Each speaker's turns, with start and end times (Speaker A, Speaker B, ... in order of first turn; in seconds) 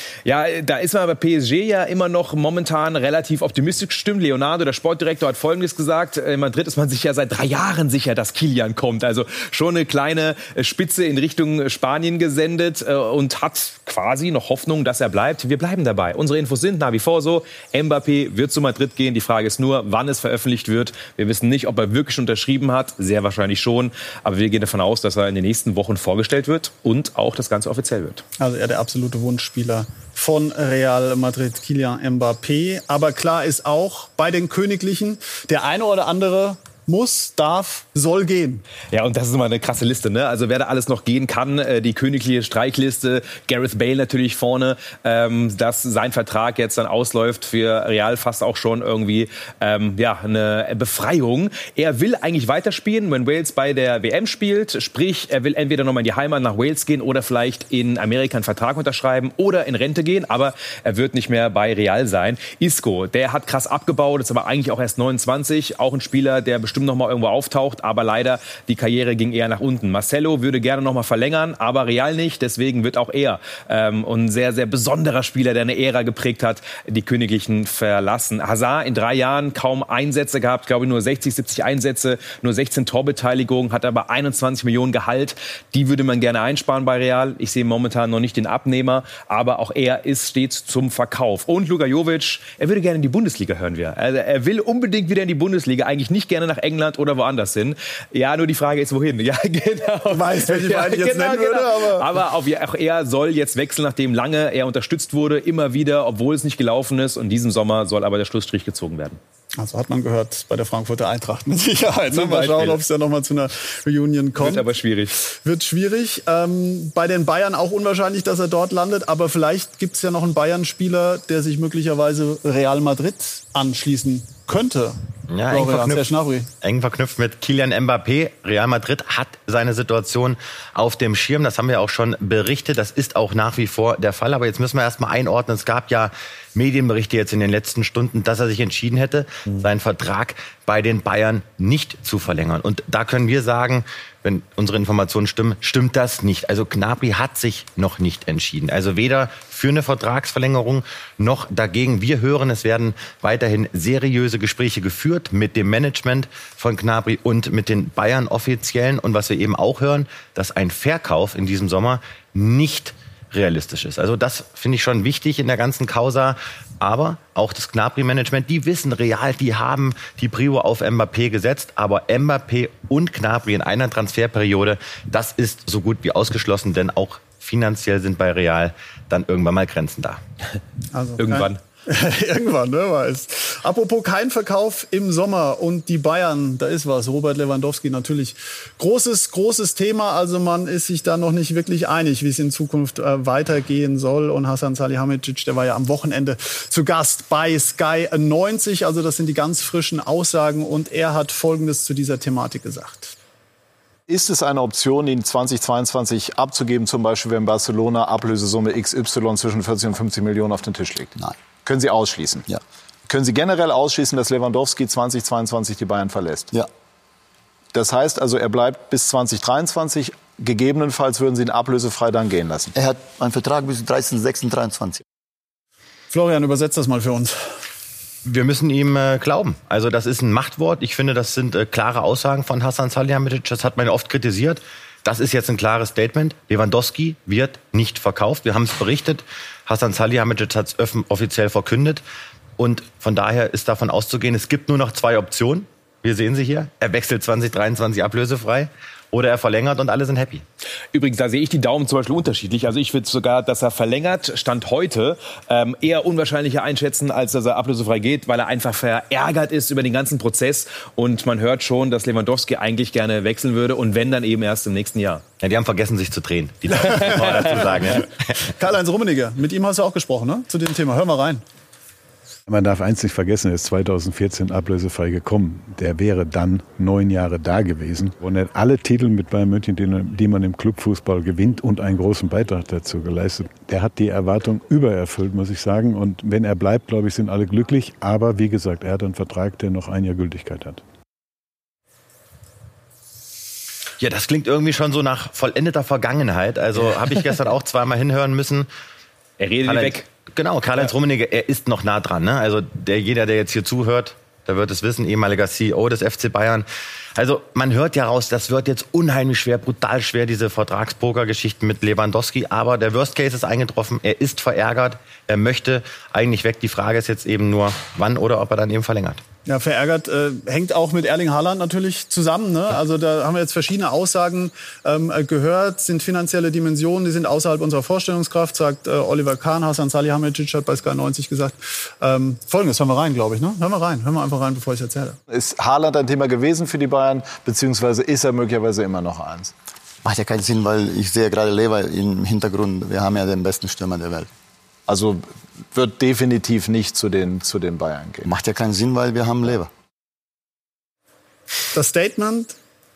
Speaker A: 0.2-28.2, 38.9-109.2, 112.1-112.8, 114.4-115.2, 181.2-181.6, 250.9-265.2, 299.4-300.1
Speaker B: 28.4-38.6, 100.1-102.1, 109.6-125.0, 125.5-126.5, 180.9-203.2, 226.1-227.6, 268.6-271.4, 319.5-335.2, 351.7-352.6
Speaker C: 125.3-126.1, 126.6-180.2, 228.2-242.0, 242.6-250.4, 265.4-268.1, 294.0-298.7, 299.6-319.2
Speaker D: 204.1-212.5, 213.1-216.5, 217.7-222.7, 335.3-339.5, 344.9-348.3
Speaker E: 222.8-225.0, 340.0-344.3, 348.2-349.7
Speaker F: 272.5-290.8